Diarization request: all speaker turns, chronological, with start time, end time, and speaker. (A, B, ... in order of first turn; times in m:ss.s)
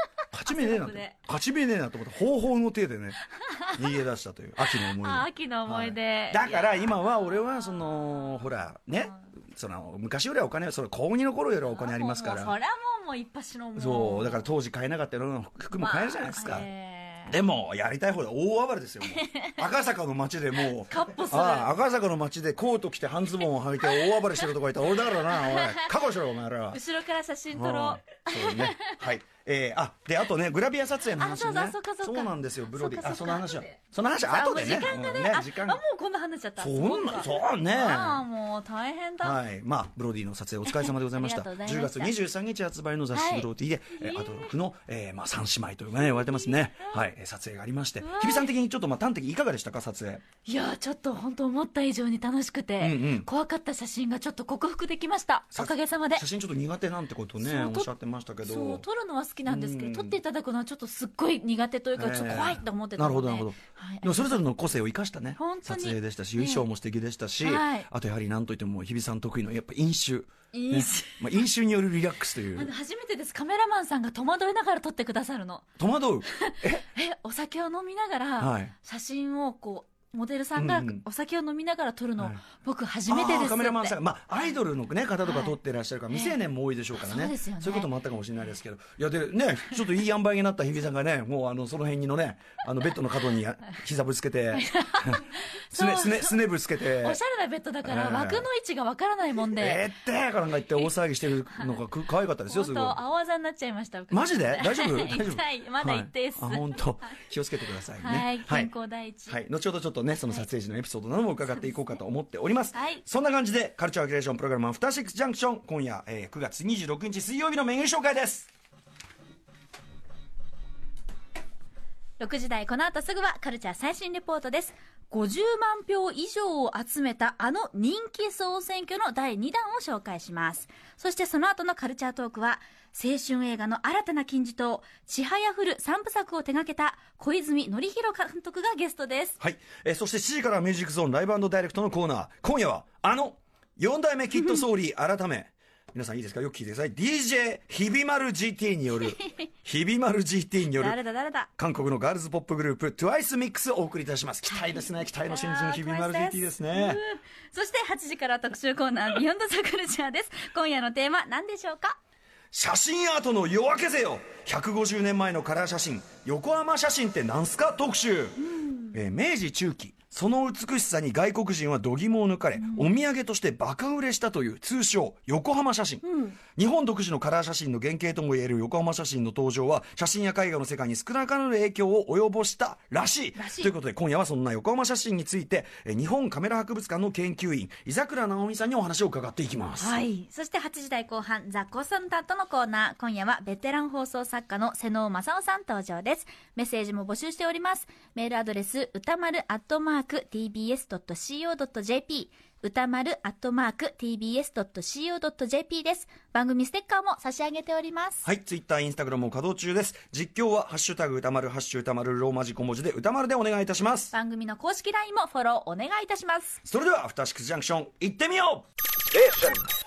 0:00.2-0:01.2 A
0:00.3-0:12.6 B
0:03.4-0:03.9 A
0:04.7-0:07.0 A
0:07.9-0:08.3 A
0:11.7-0:14.5 A
0:13.8-0:16.7 B
0:15.8-0:17.4 A
0:17.3-0:26.8 B
0:19.2-0:19.6 A
0:20.6-0:21.7 A
0:23.8-0:24.5 A
0:25.0-0:26.0 A
0:26.7-0:29.0 A
0:27.5-0:35.8 B
0:31.2-0:39.4 A
0:36.6-0:38.2 B
0:39.2-0:50.2 B
0:40.7-0:42.2 A
0:43.1-0:44.5 A
0:46.0-0:47.0 A
0:48.0-0:48.5 A
0:50.4-0:56.2 A
0:52.8-0:53.3 B
0:55.5-0:58.8 B
0:57.4-0:57.9 A
0:58.4-1:04.4 A
0:59.5-1:00.2 B
1:02.0-1:12.7 B
1:05.4-1:06.7 A
1:07.4-1:07.9 A
1:10.5-1:11.5 A
1:12.5-1:15.7 A
1:15.8-1:16.8 B
1:16.2-1:24.0 A
1:18.4-1:18.7 B
1:20.6-1:21.0 B
1:23.1-1:37.2 B
1:25.2-1:25.6 A
1:26.1-1:26.4 A
1:27.0-1:27.9 A
1:34.5-1:39.8 A
1:37.8-1:38.5 B
1:39.6-1:43.0 B
1:41.5-1:41.8 A
1:42.5-1:46.8 A
1:44.1-1:48.7 B
1:48.0-1:49.4 A
1:49.3-1:58.5 B
1:52.7-1:53.0 A
2:02.2-2:19.4 A
2:19.4-2:31.0 B
2:24.3-2:24.6 A
2:29.0-2:29.4 A
2:30.7-2:31.5 A
2:31.6-2:37.0 B
2:34.5-2:42.0 A
2:42.5-3:10.0 B
2:48.5-2:49.0 A
2:52.6-2:52.9 A
2:56.0-2:56.4 A
3:03.4-3:03.7 A
3:09.8-3:28.3 A
3:28.2-3:34.1 B
3:34.1-3:36.6 A
3:36.7-3:38.7 B